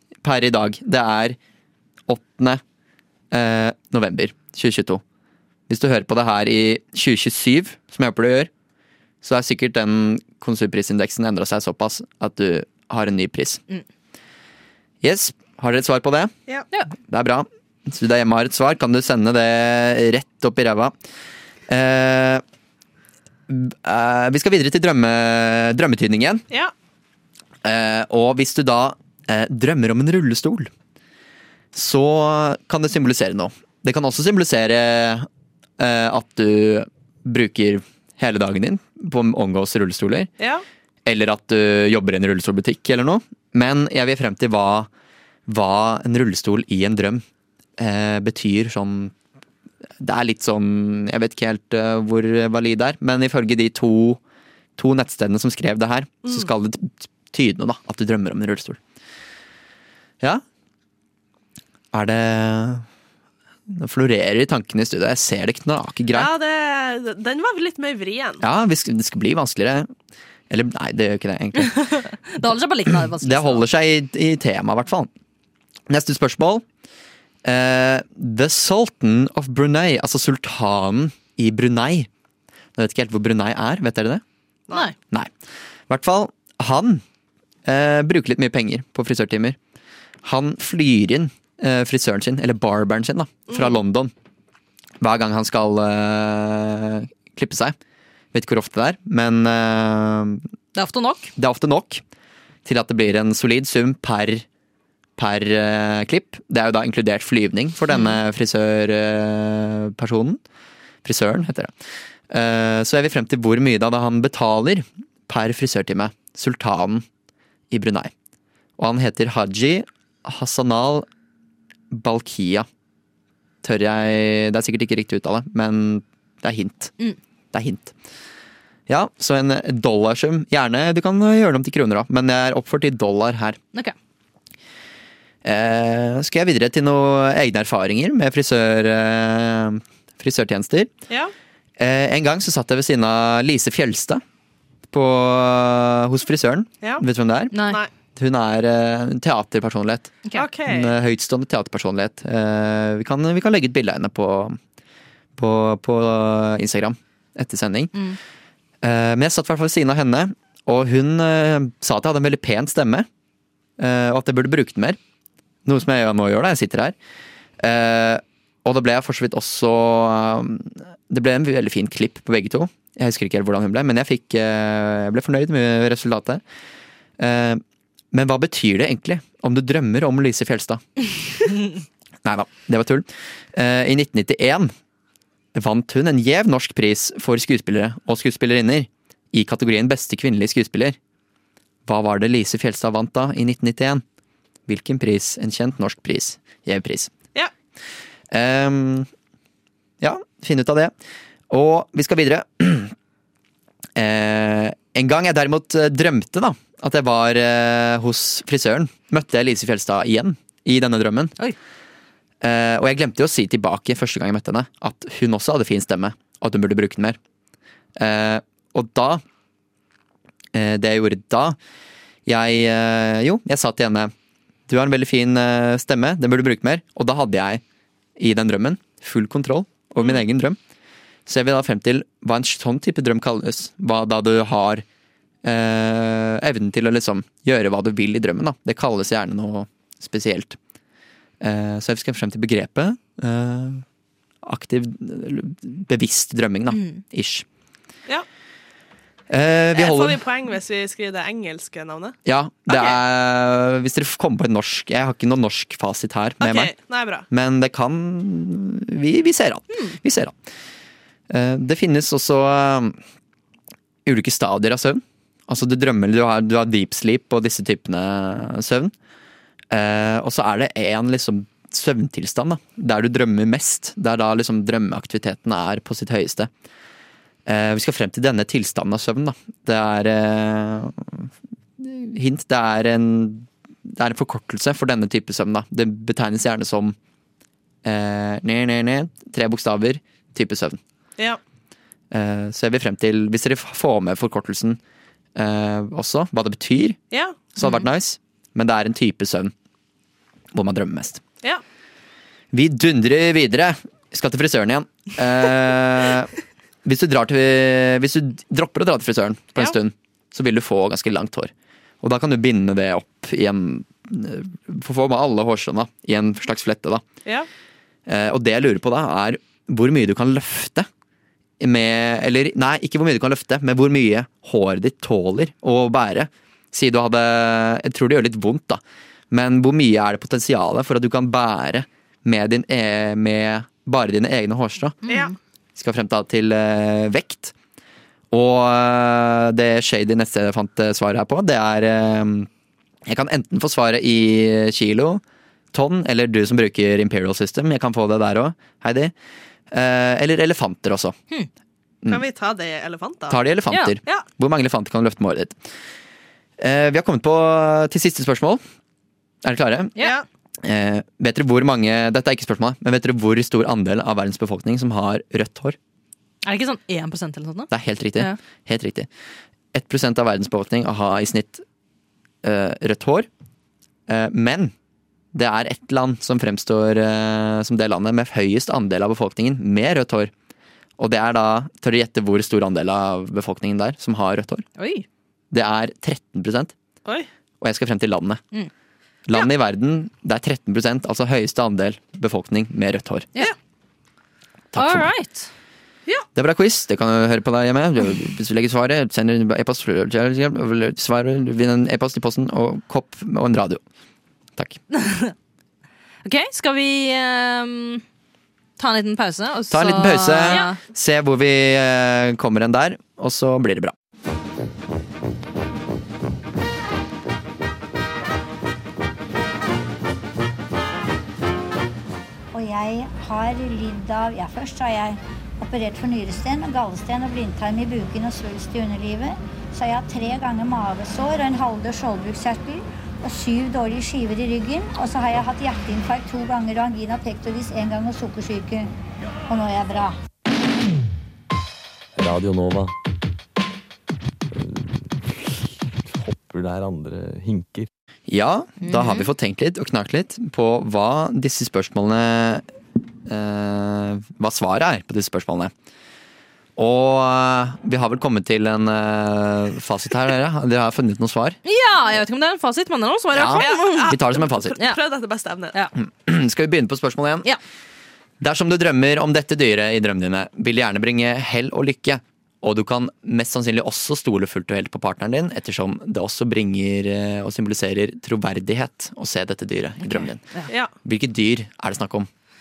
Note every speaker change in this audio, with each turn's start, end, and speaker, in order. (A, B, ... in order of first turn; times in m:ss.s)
0:00.2-0:01.4 A
0:02.1-0:02.6 A
0:03.3-0:05.0 A
0:05.7-0:08.5 A
0:09.2-0:13.6 A
0:15.0-0:16.3 A
0:17.1-0:21.0 A
0:21.7-0:22.4 A
0:23.5-0:26.4 A
0:27.6-0:30.7 A
0:31.7-0:35.3 A
0:35.8-0:40.3 A
0:41.1-0:44.9 A
0:45.5-0:47.2 A
0:47.8-0:49.1 A
0:50.0-0:54.2 A
0:54.8-0:58.8 A
1:01.9-1:02.8 A
1:03.7-1:06.3 A
1:06.1-1:08.4 B
1:08.4-1:09.9 A
1:10.5-1:11.8 A
1:11.6-1:13.6 C
1:13.2-1:15.1 A
1:15.9-1:16.6 A
1:17.4-1:22.1 A
1:22.8-1:24.2 A
1:25.9-1:27.0 A
1:27.6-1:29.6 A
1:30.2-1:34.1 A
1:35.0-1:37.8 A
1:38.3-1:40.4 A
1:40.8-1:41.3 C
1:41.4-1:42.0 A
1:42.6-1:44.4 A
1:45.2-1:50.4 A
1:47.9-1:48.2 C
1:51.0-1:51.7 A
1:52.3-1:57.0 A
1:57.7-1:58.1 A
1:58.8-2:01.1 A
2:01.9-2:02.7 A
2:03.6-2:06.9 A
2:07.5-2:07.9 A
2:08.9-2:13.6 A
2:15.4-2:20.9 A
2:21.8-2:24.2 A
2:24.9-2:27.6 A
2:27.5-2:27.8 C
2:28.2-2:30.2 A
2:30.3-2:30.9 B
2:30.7-2:34.6 A
2:35.4-2:38.0 A
2:38.8-2:43.1 A
2:43.8-2:45.0 A
2:45.7-2:47.0 A
2:47.6-2:56.4 A
2:57.2-3:00.8 A
3:02.2-3:04.7 A
3:05.5-3:11.0 A
3:11.9-3:14.0 A
3:14.7-3:17.1 A
3:18.3-3:19.1 A
3:20.0-3:20.9 A
3:21.5-3:22.9 A
3:24.0-3:31.4 A
3:32.4-3:37.2 A
3:38.0-3:39.2 A
3:40.5-3:41.6 A
3:42.3-3:44.1 A
3:44.7-3:47.6 A
3:48.2-3:50.6 A
3:51.3-3:54.8 A
3:55.4-4:00.6 A
4:01.4-4:03.8 A
4:04.4-4:07.4 A
4:06.7-4:07.0 C
4:09.3-4:10.2 A
4:09.8-4:12.2 B
4:12.2-4:16.7 A
4:12.7-4:13.0 B
4:16.4-4:17.2 B
4:17.3-4:20.3 A
4:21.3-4:23.0 A
4:24.1-4:28.9 A
4:29.7-4:36.5 A
4:37.5-4:47.0 A
4:47.8-4:50.8 A
4:52.1-4:54.8 A
4:55.4-4:57.0 A
4:57.1-4:57.5 B
4:57.6-4:59.5 A
5:00.5-5:01.2 A
5:02.5-5:06.3 A
5:06.8-5:11.5 A
5:12.0-5:17.0 A
5:18.1-5:20.9 A
5:21.6-5:35.0 A
5:35.1-5:35.3 C
5:35.1-5:35.3 B
5:35.8-5:37.5 A
5:38.3-5:42.5 A
5:43.1-5:45.2 A
5:45.7-5:49.1 A
5:49.7-5:51.2 A
5:52.1-5:53.4 B
5:53.3-5:55.6 A
5:56.6-5:58.6 A
5:59.4-6:00.0 A
6:00.0-6:00.2 B
6:00.6-6:05.8 A
6:06.4-6:08.4 C
6:07.7-6:09.1 A
6:09.7-6:11.6 A
6:12.4-6:13.3 A
6:14.1-6:14.7 A
6:15.3-6:20.3 A
6:21.0-6:24.7 A
6:24.8-6:25.1 C
6:25.5-6:26.7 A
6:27.6-6:28.4 A
6:29.3-6:33.3 A
6:34.7-6:35.1 A
6:34.8-6:35.5 C
6:36.4-6:43.8 A
6:44.9-6:45.3 C
6:46.2-6:48.0 C
6:48.8-6:50.8 C
6:49.7-6:53.9 A
7:02.5-7:18.9 D
7:19.5-7:20.2 D
7:22.2-7:22.9 E
7:24.5-7:27.9 E
7:28.3-7:32.7 A
7:28.8-7:29.3 C
7:33.3-7:35.7 A
7:36.8-7:41.6 A
7:41.6-7:44.1 C
7:43.3-7:44.8 A
7:43.6-7:45.8 B
7:46.0-7:47.5 A
7:48.4-8:00.4 A
8:00.0-8:00.7 C
8:01.0-8:02.3 A